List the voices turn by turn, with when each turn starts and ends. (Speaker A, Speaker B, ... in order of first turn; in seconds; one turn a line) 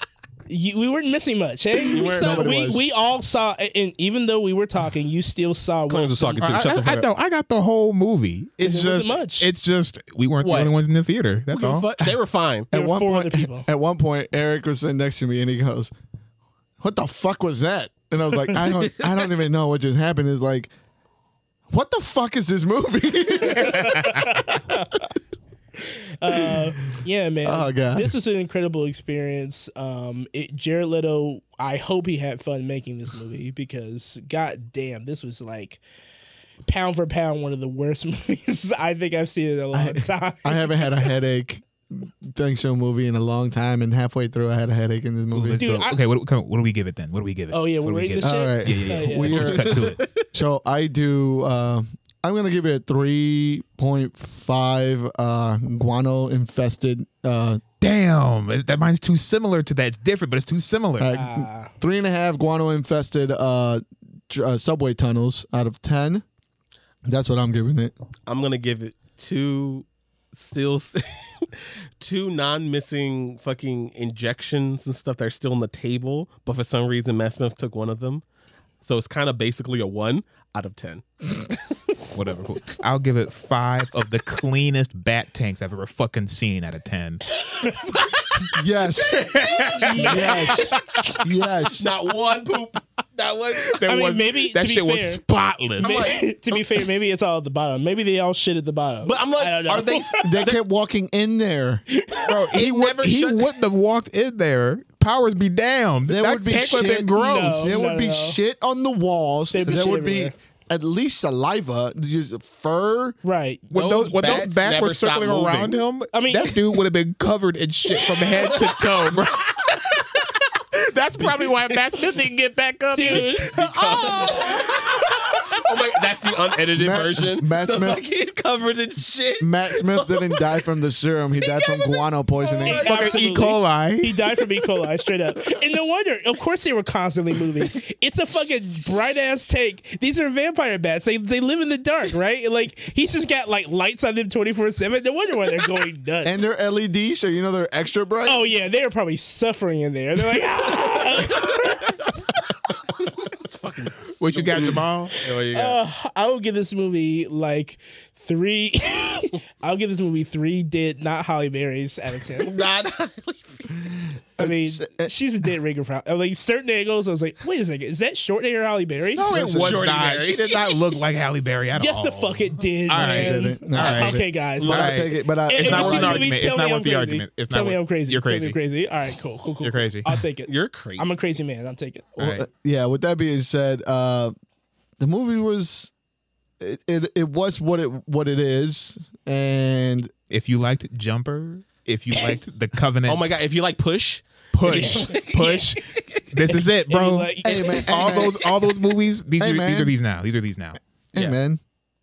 Speaker A: 0.5-6.5
Speaker B: 1.8-2.5
Speaker C: 2.2-2.9
Speaker B: 5.9-7.1
Speaker D: 6.4-11.9
Speaker A: 8.6-9.5
Speaker B: 10.4-10.7
Speaker B: 11.5-12.7
Speaker C: 12.7-15.9
Speaker A: 12.7-13.7
Speaker C: 16.8-20.7
Speaker C: 21.7-24.6
Speaker A: 23.4-25.0
Speaker A: 25.8-35.8
Speaker C: 26.3-26.6
Speaker C: 27.4-28.1
Speaker A: 36.6-41.1
Speaker C: 39.7-45.7
Speaker D: 45.3-50.0
Speaker A: 45.6-46.0
Speaker A: 47.5-49.5
Speaker C: 48.2-57.6
Speaker B: 49.3-50.3
Speaker D: 57.8-61.1
Speaker C: 61.0-66.2
Speaker A: 61.1-61.7
Speaker C: 67.0-67.9
Speaker B: 68.3-78.2
Speaker B: 78.8-81.5
Speaker D: 82.1-87.2
Speaker A: 87.6-88.0
Speaker C: 88.5-91.9
Speaker D: 89.1-90.5
Speaker B: 89.2-90.7
Speaker A: 89.8-91.2
Speaker B: 91.7-93.8
Speaker D: 93.6-96.1
Speaker A: 93.9-95.2
Speaker B: 95.8-96.8
Speaker A: 95.8-100.4
Speaker B: 99.0-100.6
Speaker C: 100.2-101.8
Speaker A: 101.9-102.4
Speaker D: 102.3-107.8
Speaker B: 102.5-103.5
Speaker C: 106.1-113.2
Speaker A: 107.2-108.4
Speaker A: 109.5-110.3
Speaker A: 113.2-114.4
Speaker D: 113.7-124.5
Speaker B: 113.7-115.8
Speaker A: 116.1-116.7
Speaker B: 118.2-119.2
Speaker B: 121.2-122.2
Speaker A: 122.9-124.5
Speaker B: 123.0-130.6
Speaker C: 126.7-128.0
Speaker C: 129.4-132.9
Speaker B: 131.4-133.2
Speaker A: 132.6-146.4
Speaker D: 132.8-134.2
Speaker C: 146.2-148.5
Speaker A: 148.2-152.2
Speaker B: 151.1-155.8
Speaker D: 154.2-155.2
Speaker A: 155.5-162.5
Speaker B: 162.4-163.9
Speaker C: 164.4-165.1
Speaker A: 164.4-169.3
Speaker D: 169.1-178.6
Speaker C: 169.1-169.8
Speaker B: 169.6-171.0
Speaker A: 171.8-182.1
Speaker C: 172.9-176.3
Speaker D: 179.6-180.1
Speaker B: 180.4-181.1
Speaker C: 182.2-184.3
Speaker D: 182.2-182.5
Speaker C: 185.0-185.9
Speaker C: 186.6-190.1
Speaker D: 190.3-193.4
Speaker B: 193.0-196.0
Speaker D: 194.5-200.8
Speaker A: 194.7-195.7
Speaker A: 196.9-197.8
Speaker C: 197.4-198.4
Speaker C: 199.4-199.9
Speaker C: 201.1-201.6